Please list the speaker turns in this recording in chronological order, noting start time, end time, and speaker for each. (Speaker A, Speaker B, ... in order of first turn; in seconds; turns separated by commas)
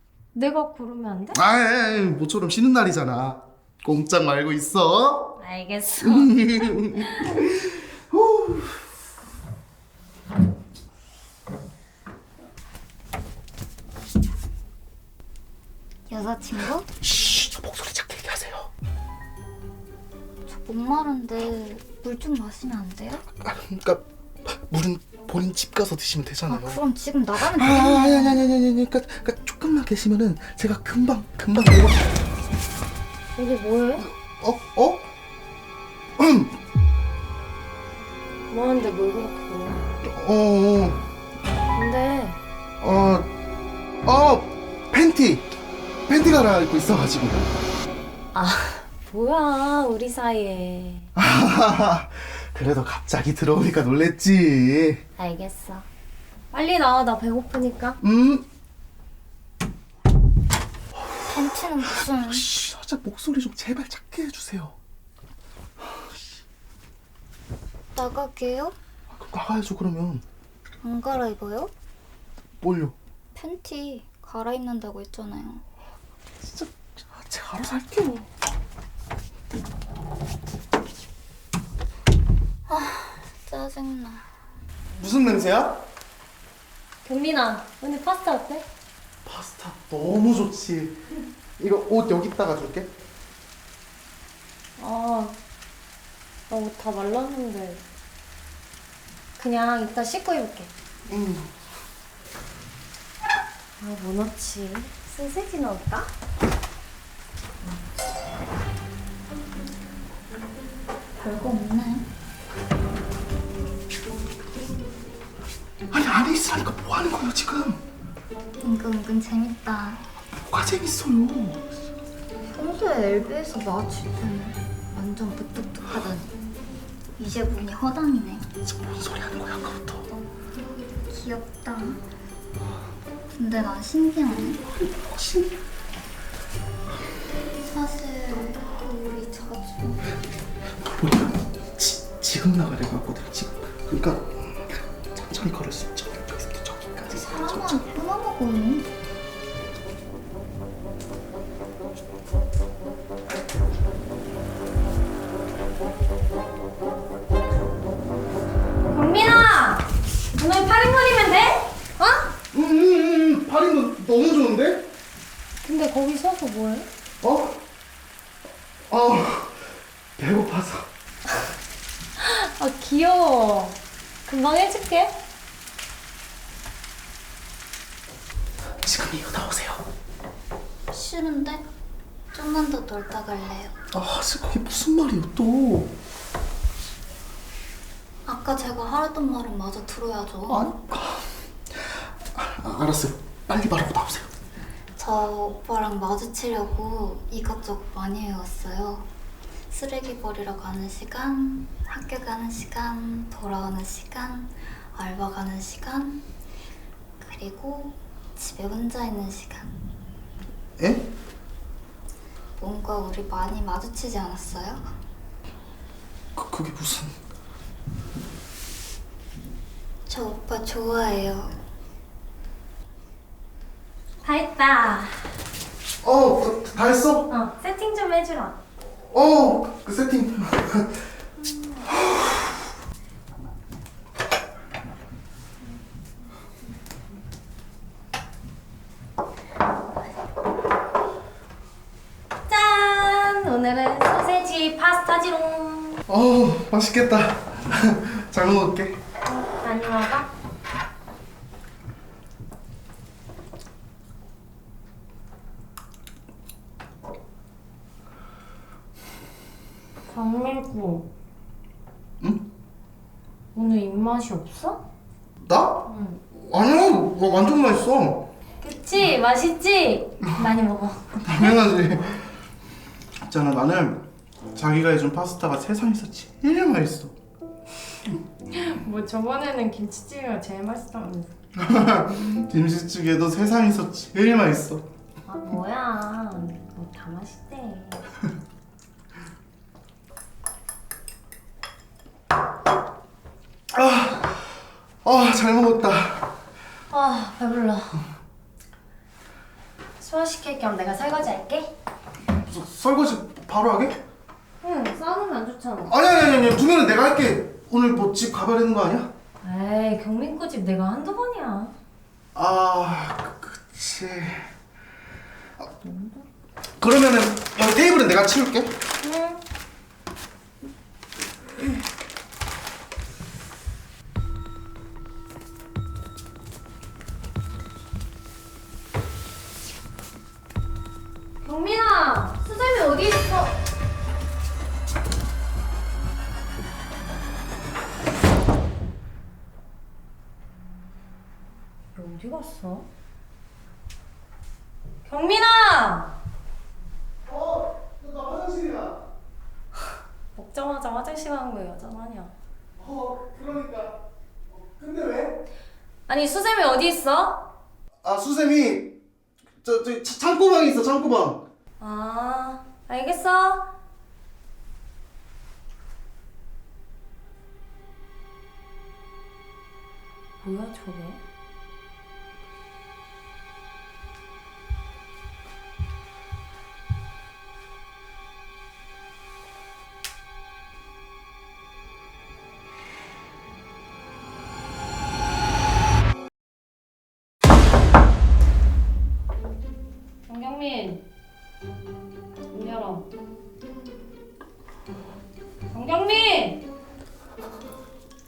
Speaker A: 0.3-1.4, Speaker B: 1.3-5.4, Speaker A: 5.4-7.4, Speaker B: 6.0-8.8, Speaker C: 16.1-16.9, Speaker B: 17.0-18.7, Speaker C: 20.5-23.2, Speaker B: 23.3-26.8, Speaker C: 26.5-28.4, Speaker B: 27.4-32.1, Speaker A: 33.4-34.1, Speaker B: 34.0-35.1, Speaker B: 36.2-36.5, Speaker A: 38.5-39.8, Speaker B: 40.0-41.0, Speaker A: 41.7-42.4, Speaker B: 42.8-43.3, Speaker B: 44.0-45.5, Speaker B: 46.1-47.5, Speaker A: 48.3-51.1, Speaker B: 51.1-55.0, Speaker A: 55.2-55.9, Speaker A: 56.5-58.0, Speaker B: 58.0-58.5, Speaker C: 61.3-62.5, Speaker B: 61.7-64.7, Speaker C: 67.9-68.8, Speaker B: 69.1-70.2, Speaker C: 70.8-71.7, Speaker B: 72.6-72.9, Speaker C: 73.3-75.6, Speaker B: 76.4-78.2, Speaker C: 82.7-84.2, Speaker B: 85.0-85.8, Speaker A: 87.0-88.7, Speaker B: 89.2-91.0, Speaker B: 91.6-92.9, Speaker A: 94.8-95.4, Speaker A: 96.5-97.8, Speaker A: 99.4-100.7, Speaker B: 101.1-101.5, Speaker A: 103.8-106.1, Speaker C: 111.2-112.1, Speaker B: 115.9-117.8, Speaker C: 118.6-120.0, Speaker B: 120.4-121.6, Speaker C: 122.5-126.3, Speaker C: 127.2-128.5, Speaker B: 128.6-130.0, Speaker C: 131.0-132.0, Speaker C: 133.4-134.6, Speaker B: 134.6-135.5, Speaker C: 137.6-140.1, Speaker B: 140.8-147.9, Speaker C: 147.1-148.9, Speaker A: 158.9-162.3, Speaker B: 162.5-164.9, Speaker A: 165.6-166.9, Speaker B: 167.2-167.6, Speaker B: 168.9-169.6, Speaker B: 170.2-170.9, Speaker A: 172.2-175.2, Speaker B: 178.8-179.8, Speaker C: 180.9-181.6, Speaker C: 182.3-183.7, Speaker B: 183.9-185.9, Speaker C: 188.2-190.7, Speaker B: 190.5-191.2, Speaker B: 191.8-194.3, Speaker C: 195.0-199.1, Speaker C: 199.7-206.2, Speaker C: 207.2-209.8, Speaker B: 210.8-211.1, Speaker C: 212.6-214.8, Speaker B: 216.3-217.2, Speaker C: 220.1-221.6, Speaker A: 224.2-225.3, Speaker B: 226.0-227.3, Speaker A: 227.3-228.6, Speaker B: 229.1-231.0, Speaker B: 231.9-232.4, Speaker A: 242.5-246.0, Speaker B: 246.1-249.0, Speaker A: 249.4-250.3, Speaker A: 260.1-261.1, Speaker A: 263.5-264.8, Speaker B: 265.4-268.3, Speaker A: 265.9-266.2, Speaker A: 268.6-271.6, Speaker B: 271.2-272.2, Speaker B: 273.2-277.1, Speaker A: 278.5-281.3, Speaker B: 281.6-284.8, Speaker A: 285.2-288.0, Speaker B: 293.7-296.3, Speaker A: 296.9-298.0, Speaker A: 300.0-301.7, Speaker B: 302.4-304.0, Speaker A: 304.6-305.9, Speaker B: 305.9-309.1, Speaker A: 309.4-311.7, Speaker B: 312.3-314.5, Speaker B: 315.6-316.2, Speaker B: 316.8-318.7, Speaker A: 319.0-319.4, Speaker A: 331.4-333.6, Speaker A: 341.9-342.9, Speaker A: 345.0-346.1, Speaker B: 347.2-349.0, Speaker A: 350.4-352.3, Speaker B: 352.8-354.0, Speaker B: 354.5-355.4, Speaker A: 356.1-357.5, Speaker B: 358.0-358.9, Speaker B: 359.6-361.4, Speaker A: 361.8-363.7, Speaker A: 370.4-371.2, Speaker A: 390.3-391.0, Speaker A: 392.5-393.0, Speaker A: 395.7-396.6